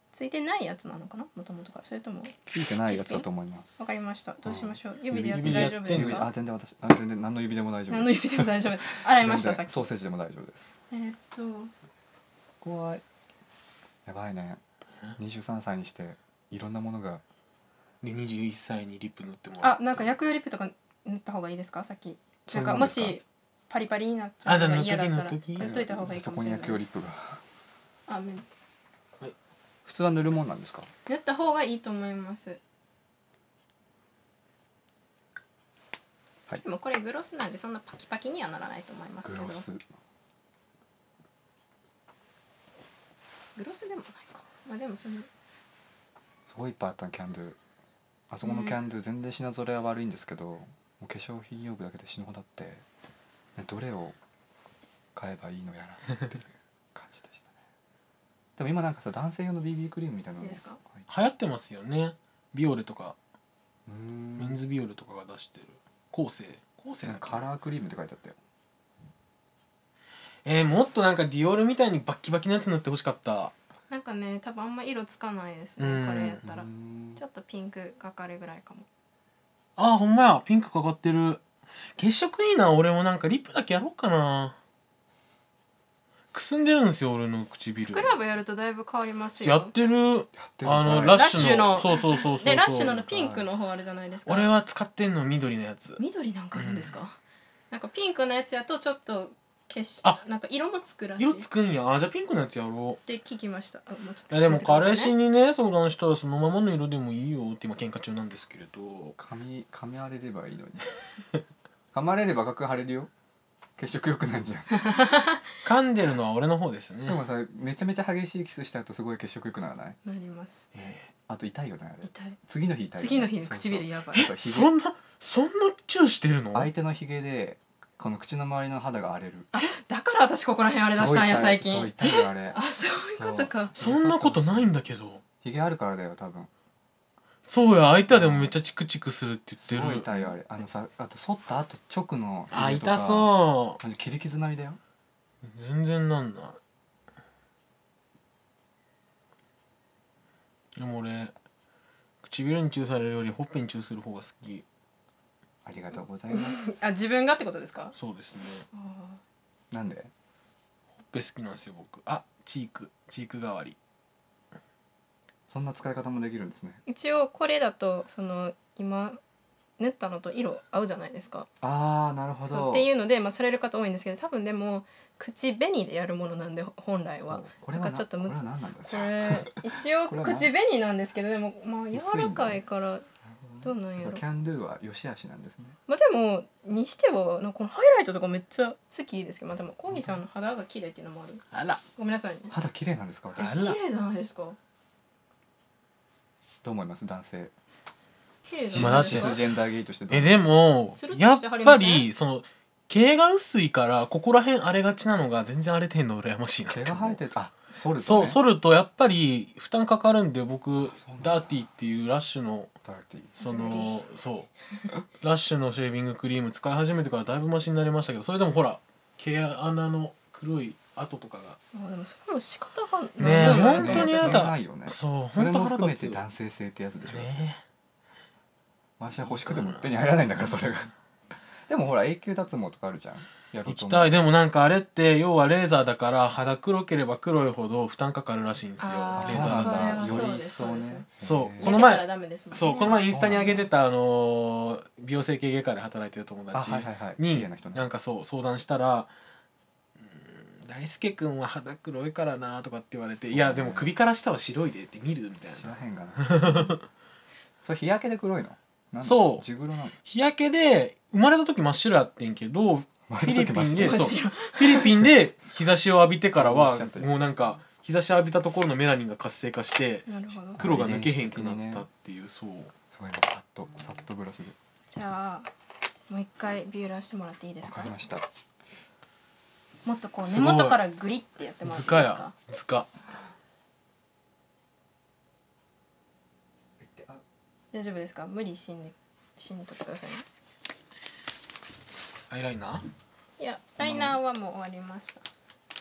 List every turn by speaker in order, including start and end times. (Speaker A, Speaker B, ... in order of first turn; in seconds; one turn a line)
Speaker A: 0.1-3.3
Speaker B: 2.5-3.8
Speaker A: 3.8-6.3
Speaker B: 4.5-10.8
Speaker C: 5.2-6.3
Speaker A: 7.9-9.9
Speaker A: 10.9-11.7
Speaker B: 12.6-13.0
Speaker B: 14.1-14.6
Speaker B: 15.2-17.2
Speaker C: 18.0-20.1
Speaker A: 19.6-26.9
Speaker B: 22.5-23.2
Speaker C: 24.5-25.7
Speaker B: 25.6-27.4
Speaker A: 28.1-28.4
Speaker B: 29.9-30.9
Speaker A: 31.1-32.6
Speaker A: 36.6-39.6
Speaker B: 39.2-39.9
Speaker A: 43.6-45.3
Speaker B: 46.5-47.6
Speaker B: 48.3-52.9
Speaker A: 48.4-48.8
Speaker B: 53.6-54.2
Speaker B: 55.1-57.5
Speaker B: 58.6-61.1
Speaker A: 60.4-60.8
Speaker C: 61.1-63.2
Speaker B: 63.9-64.6
Speaker C: 64.4-67.5
Speaker B: 67.0-68.4
Speaker C: 70.5-73.5
Speaker A: 73.9-78.9
Speaker C: 75.8-76.4
Speaker B: 76.4-77.2
Speaker C: 79.8-81.4
Speaker C: 82.0-84.6
Speaker C: 86.3-88.2
Speaker A: 87.8-89.7
Speaker C: 89.4-93.0
Speaker B: 90.4-91.6
Speaker A: 91.1-94.5
Speaker B: 93.0-93.5
Speaker C: 94.3-96.0
Speaker A: 96.0-97.2
Speaker C: 96.5-97.0
Speaker A: 97.7-101.5
Speaker C: 101.2-103.0
Speaker A: 103.0-105.2
Speaker C: 104.3-109.2
Speaker B: 109.2-110.9
Speaker B: 111.9-113.1
Speaker B: 113.8-115.0
Speaker A: 114.8-115.4
Speaker C: 115.6-117.2
Speaker B: 117.1-120.0
Speaker A: 120.0-120.7
Speaker C: 120.7-121.1
Speaker B: 121.3-124.7
Speaker A: 122.0-122.4
Speaker A: 123.0-124.3
Speaker C: 124.2-126.7
Speaker B: 126.5-129.5
Speaker A: 129.5-133.7
Speaker B: 130.9-132.6
Speaker B: 133.2-134.8
Speaker C: 133.8-135.2
Speaker B: 135.4-136.5
Speaker C: 137.4-140.1
Speaker B: 138.1-138.6
Speaker B: 139.6-144.8
Speaker C: 142.5-143.8
Speaker C: 145.4-146.6
Speaker C: 150.8-151.3
Speaker C: 152.2-154.7
Speaker B: 155.6-156.8
Speaker A: 156.3-158.0
Speaker C: 158.0-158.7
Speaker A: 158.7-159.2
Speaker B: 159.7-160.1
Speaker C: 161.1-163.8
Speaker B: 165.5-166.8
Speaker A: 166.9-169.2
Speaker A: 169.8-171.5
Speaker B: 171.6-172.9
Speaker A: 172.5-183.1
Speaker B: 177.3-180.5
Speaker B: 181.9-182.6
Speaker B: 183.2-185.8
Speaker A: 183.6-184.2
Speaker A: 185.9-191.4
Speaker C: 191.5-191.8
Speaker A: 192.0-192.5
Speaker B: 192.5-193.6
Speaker A: 193.4-194.6
Speaker C: 193.4-193.8
Speaker B: 196.6-197.5
Speaker A: 198.4-199.4
Speaker B: 198.7-200.5
Speaker C: 198.7-199.5
Speaker C: 200.1-207.2
Speaker A: 201.0-202.1
Speaker B: 206.7-208.4
Speaker C: 208.0-212.7
Speaker B: 210.9-211.5
Speaker B: 212.8-213.5
Speaker A: 213.4-214.0
Speaker C: 213.4-214.5
Speaker C: 215.2-221.6
Speaker A: 221.7-224.5
Speaker C: 223.2-226.2
Speaker B: 223.2-227.3
Speaker C: 227.1-227.6
Speaker B: 229.0-230.9
Speaker C: 229.3-229.8
Speaker B: 231.7-234.2
Speaker C: 233.7-240.3
Speaker A: 238.8-241.1
Speaker B: 239.2-241.9
Speaker C: 241.2-249.1
Speaker A: 241.6-243.1
Speaker B: 242.8-243.7
Speaker B: 246.5-247.8
Speaker C: 250.0-256.8
Speaker B: 253.3-253.9
Speaker B: 255.5-256.8
Speaker B: 257.6-260.0
Speaker C: 259.0-259.5
Speaker C: 260.1-272.7
Speaker B: 263.1-264.1
Speaker A: 263.8-264.9
Speaker B: 266.3-267.2
Speaker A: 270.1-270.6
Speaker B: 270.6-271.9
Speaker B: 272.9-274.6
Speaker A: 274.9-275.5
Speaker A: 276.1-277.9
Speaker B: 277.6-278.2
Speaker A: 279.9-282.3
Speaker C: 280.2-280.8
Speaker C: 281.6-282.9
Speaker B: 286.8-287.2
Speaker A: 287.7-290.2
Speaker C: 292.3-292.9
Speaker A: 293.4-295.2
Speaker B: 293.8-294.1